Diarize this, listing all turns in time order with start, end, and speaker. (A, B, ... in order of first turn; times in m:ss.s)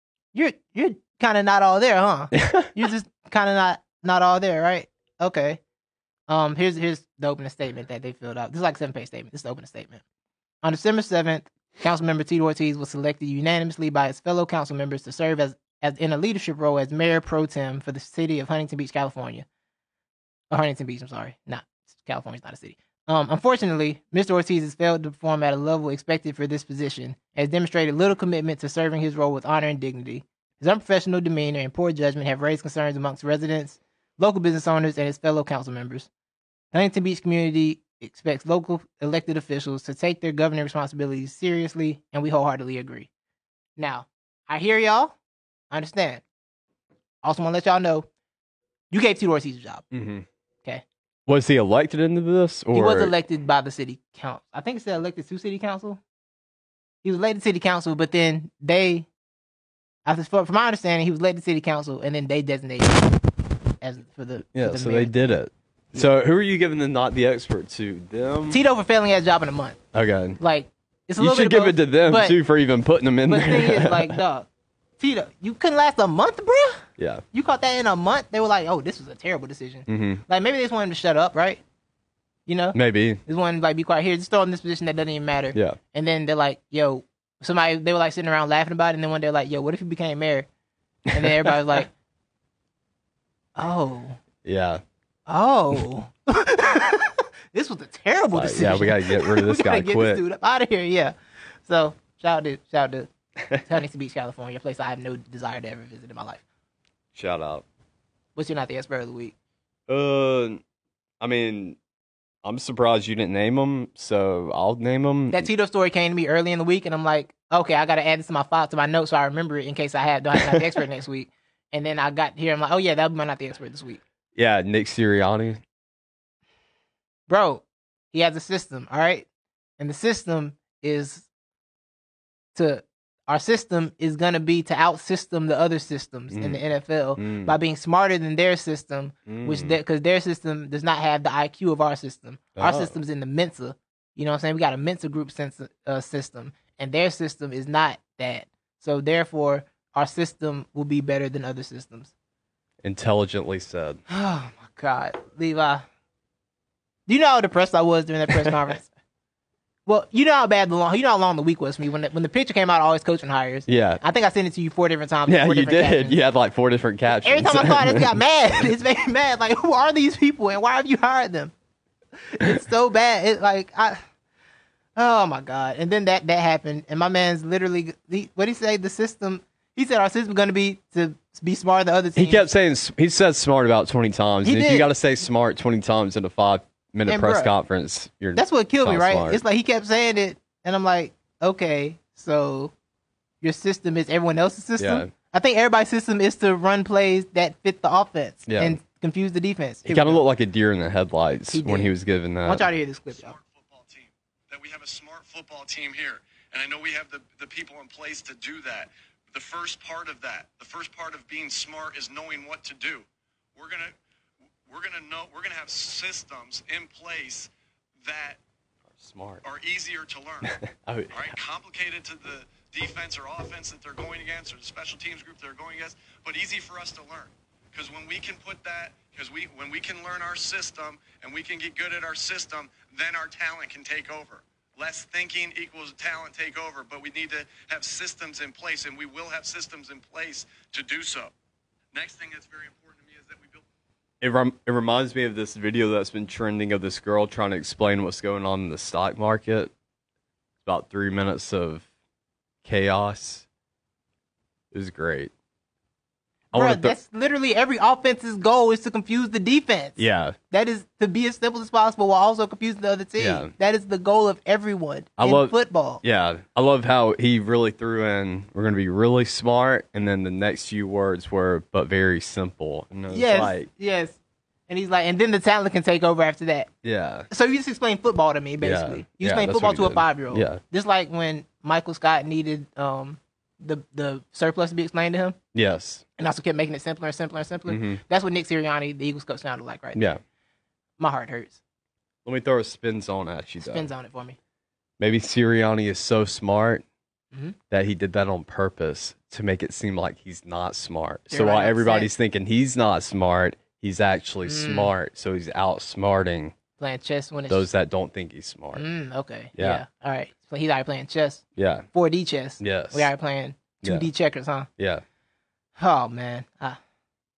0:00.3-0:05.6 A
0:02.4-0:02.7 B
0:06.3-0:10.0 A
0:10.6-0:19.4 A
0:20.5-0:36.1 A
0:36.7-0:43.1 A
0:43.8-0:45.2 A
0:45.7-0:46.2 A
0:47.2-0:48.1 A
0:48.9-0:49.8 A
0:49.9-0:50.2 B
0:51.2-0:53.1 B
0:52.7-0:56.0 A
0:57.0-0:59.1 A
1:00.0-1:03.2 A
1:03.8-1:05.1 A
1:04.5-1:08.6 B
1:08.5-1:09.8 A
1:09.9-1:10.4 B
1:10.4-1:12.4 A
1:11.2-1:14.2 B
1:13.3-1:14.5 A
1:15.0-1:21.6 A
1:17.0-1:17.2 B
1:19.9-1:20.2 B
1:22.5-1:30.5 A
1:22.7-1:23.2 B
1:31.1-1:31.5 B
1:31.1-1:31.9 A
1:33.6-1:34.2 A
1:34.4-1:34.8 B
1:35.3-1:43.1 A
1:38.3-1:40.2 B
1:43.6-1:46.4 A
1:47.1-1:47.6 B
1:48.4-1:49.3 A
1:49.9-1:50.6 B
1:51.2-1:51.8 B
1:52.4-1:55.5 B
1:55.3-2:04.0 A
2:04.3-2:05.6 B
2:07.3-2:09.2 A
2:09.8-2:11.3 A
2:12.5-2:32.1 A
2:16.3-2:16.6 B
2:17.2-2:17.5 B
2:19.2-2:19.7 B
2:22.6-2:23.0 B
2:32.8-2:34.0 B
2:34.1-2:35.8 A
2:37.1-2:38.9 A
2:39.8-2:46.2 A
2:43.7-2:44.0 B
2:45.2-2:48.2 B
2:47.2-2:51.5 A
2:52.3-2:54.0 A
2:55.0-3:02.5 A
3:02.2-3:09.4 B
3:04.4-3:04.9 A
3:07.0-3:07.5 A
3:08.3-3:12.7 A
3:13.4-3:20.2 A
3:14.8-3:15.1 B
3:18.5-3:18.8 B
3:19.8-3:22.7 B
3:21.5-3:21.9 A
3:22.4-3:23.3 A
3:23.1-3:33.9 C
3:34.7-3:37.5 C
3:38.0-3:38.4 C
3:39.0-3:39.4 B
3:39.4-3:40.6 C
3:40.5-3:41.3 B
3:41.1-4:01.3 C
4:01.9-4:03.6 C
4:04.2-4:09.7 B
4:10.6-4:11.8 B
4:12.6-4:13.4 B
4:14.7-4:15.3 B
4:16.5-4:16.9 B
4:16.5-4:26.0 A
4:20.0-4:20.4 B
4:23.2-4:23.5 B
4:25.2-4:33.7 B
4:33.1-4:34.2 A
4:34.7-4:36.7 A
4:36.8-4:37.3 B
4:37.3-4:45.4 A
4:38.6-4:40.6 B
4:45.5-4:46.0 B
4:46.2-4:50.1 A
4:47.7-4:48.0 B
4:50.0-4:50.2 B
4:51.0-4:51.6 A
4:52.2-4:53.9 B
4:53.6-4:54.4 A
4:55.0-4:56.8 B
4:57.3-4:57.6 A
4:57.7-5:06.5 B
5:01.3-5:02.1 A
5:04.4-5:04.9 A
5:06.8-5:07.7 A
5:07.5-5:08.8 B
5:08.7-5:14.7 A
5:09.6-5:09.8 B
5:11.6-5:11.8 B
5:12.6-5:13.1 B
5:14.8-5:15.0 B
5:15.8-5:16.8 A